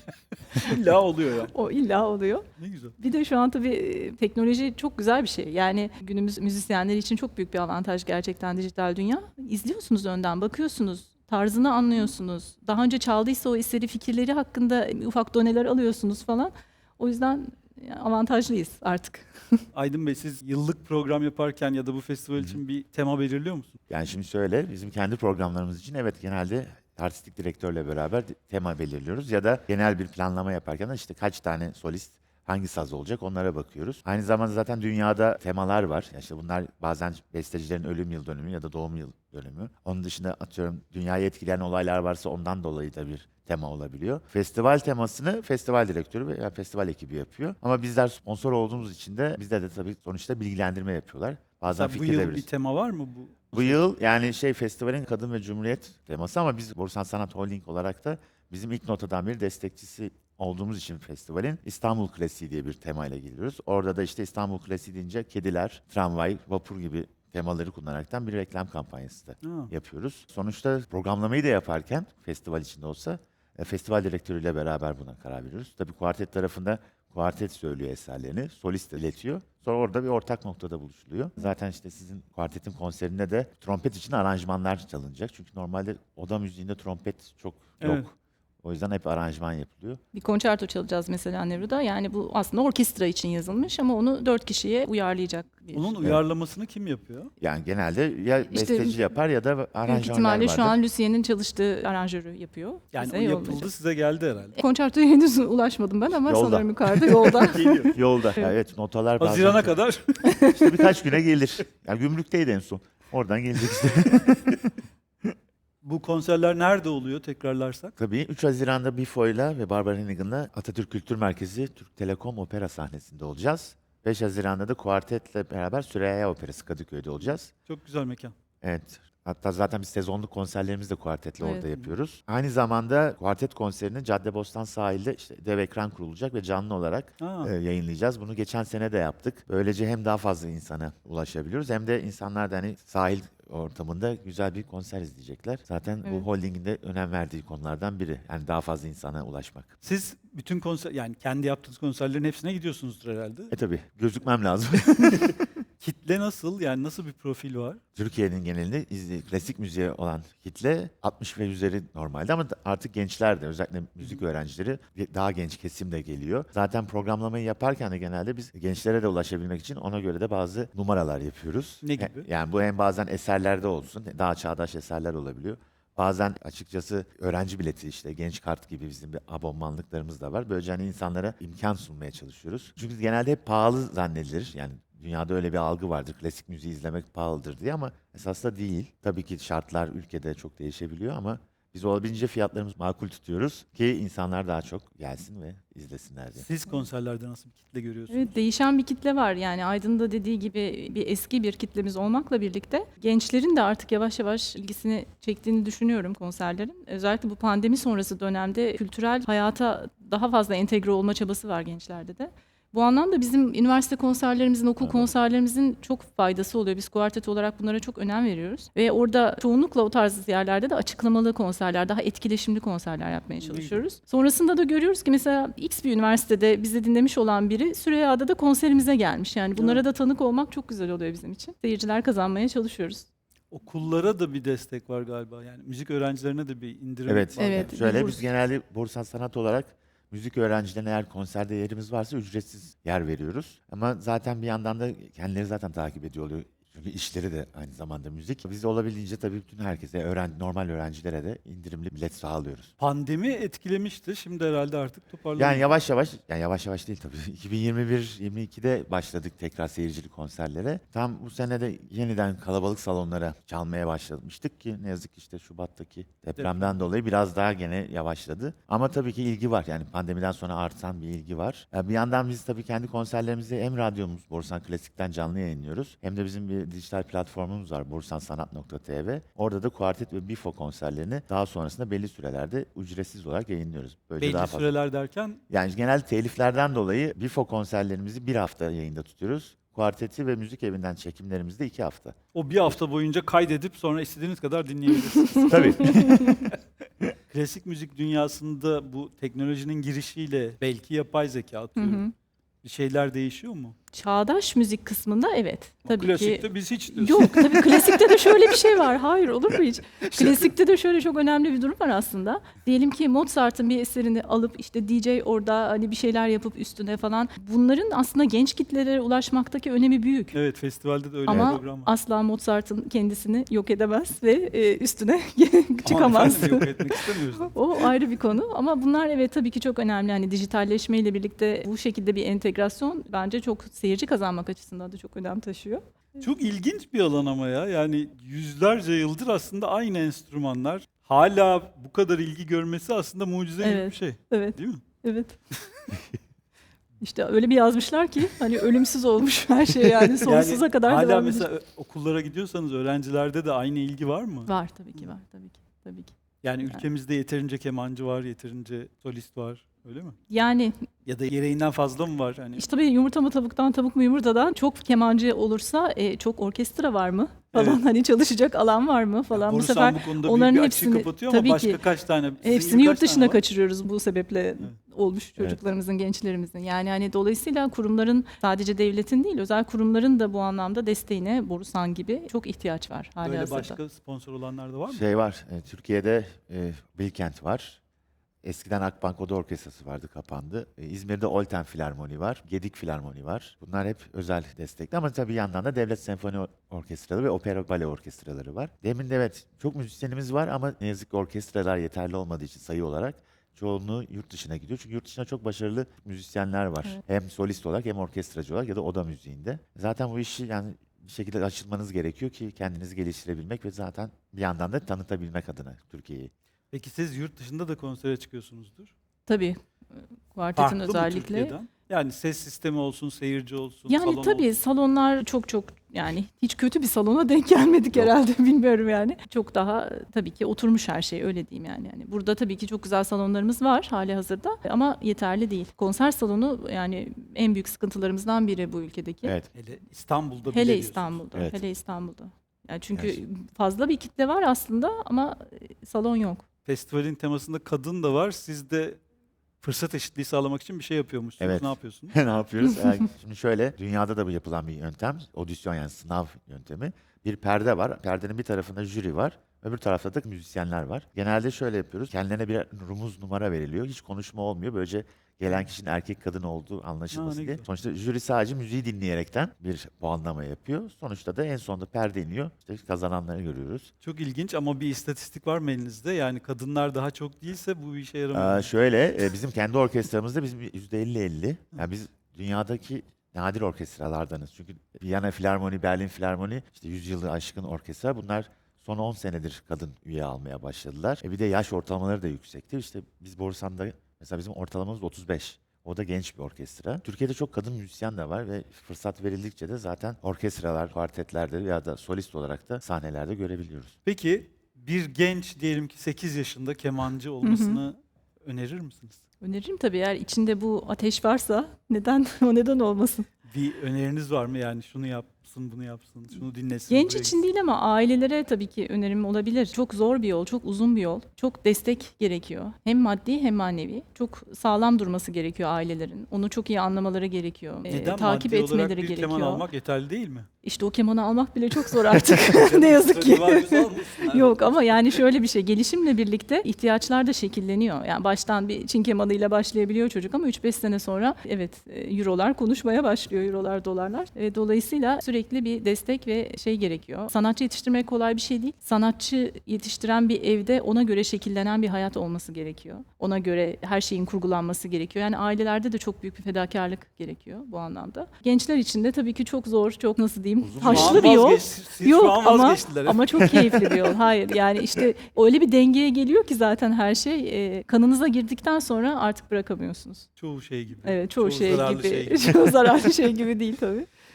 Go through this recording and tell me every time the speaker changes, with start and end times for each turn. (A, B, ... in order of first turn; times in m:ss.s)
0:00.5-0:01.5 A
0:01.5-0:02.4 B
0:02.6-0:03.0 A
0:03.0-0:19.6 B
0:19.7-0:23.8 A
0:23.9-0:52.5 C
0:51.7-0:53.8 A
0:53.5-1:30.0 C
1:09.4-1:09.7 A
1:30.1-1:36.0 B
1:35.7-1:37.3 A
1:37.4-1:40.8 C
1:38.5-1:39.0 B
1:39.9-1:43.7 B
1:42.9-1:44.6 A
1:44.6-1:48.5 B
1:46.2-1:49.8 C
1:47.5-1:48.0 A
1:49.2-1:50.3 A
1:50.2-1:50.9 B
1:50.6-1:54.7 C
1:55.8-1:58.0 A
1:58.0-2:07.5 C
2:07.7-2:08.3 A
2:08.6-2:29.7 C
2:11.4-2:11.7 B
2:11.7-2:12.0 A
2:17.2-2:17.5 A
2:29.8-2:33.5 A
2:33.5-2:35.4 C
2:35.8-2:37.8 A
2:38.0-3:16.5 C
2:51.8-2:52.3 A
3:16.4-3:18.3 A
3:18.1-3:53.1 B
3:34.8-3:35.1 C
3:43.4-3:43.8 A
3:49.6-3:49.8 A
3:53.5-3:57.8 A
3:57.1-4:12.7 C
3:57.4-3:58.2 B
4:12.8-4:15.7 A
4:15.4-4:44.7 C
4:26.4-4:26.8 A
4:44.2-4:45.4 A
4:45.5-4:52.2 C
4:52.3-4:55.9 A
4:55.2-4:56.4 B
4:55.5-4:57.1 C
4:57.3-5:02.0 A
5:01.8-5:02.1 B
5:02.6-5:03.8 A
5:03.9-5:20.4 B
5:05.9-5:08.6 A
5:10.1-5:10.5 A
5:20.3-5:21.9 A
5:21.3-5:36.2 B
5:21.3-5:21.6 C
5:25.8-5:27.9 A
5:36.2-5:44.8 A
5:43.6-5:45.4 B
5:47.0-5:51.5 B
5:50.2-5:55.0 A
5:54.5-5:56.1 B
5:56.4-6:00.2 A
6:00.3-6:00.8 B
6:01.0-6:02.7 A
6:02.6-6:11.8 B
6:07.5-6:07.8 A
6:09.3-6:13.4 A
6:12.4-6:23.8 B
6:23.2-6:25.1 A
6:24.9-6:27.8 C
6:28.4-6:56.3 C
6:56.7-6:58.9 A
6:59.3-7:01.6 B
7:00.6-7:04.5 A
7:03.9-7:19.4 B
7:19.5-7:21.2 A
7:20.5-7:26.4 B
7:21.3-7:21.6 C
7:23.0-7:23.2 C
7:26.6-7:29.0 A
7:29.6-7:32.2 A
7:31.4-7:53.9 C
7:47.1-7:47.7 A
7:54.0-7:58.7 A
7:58.3-8:23.9 C
8:24.0-8:29.2 A
8:27.4-8:27.8 B
8:29.4-8:33.3 B
8:33.5-8:37.4 A
8:36.4-8:49.7 B
8:47.8-8:50.5 A
8:50.6-9:30.3 B
8:52.5-8:55.2 A
9:20.6-9:21.3 C
9:20.8-9:24.0 A
9:30.4-9:32.7 A
9:31.0-9:34.1 B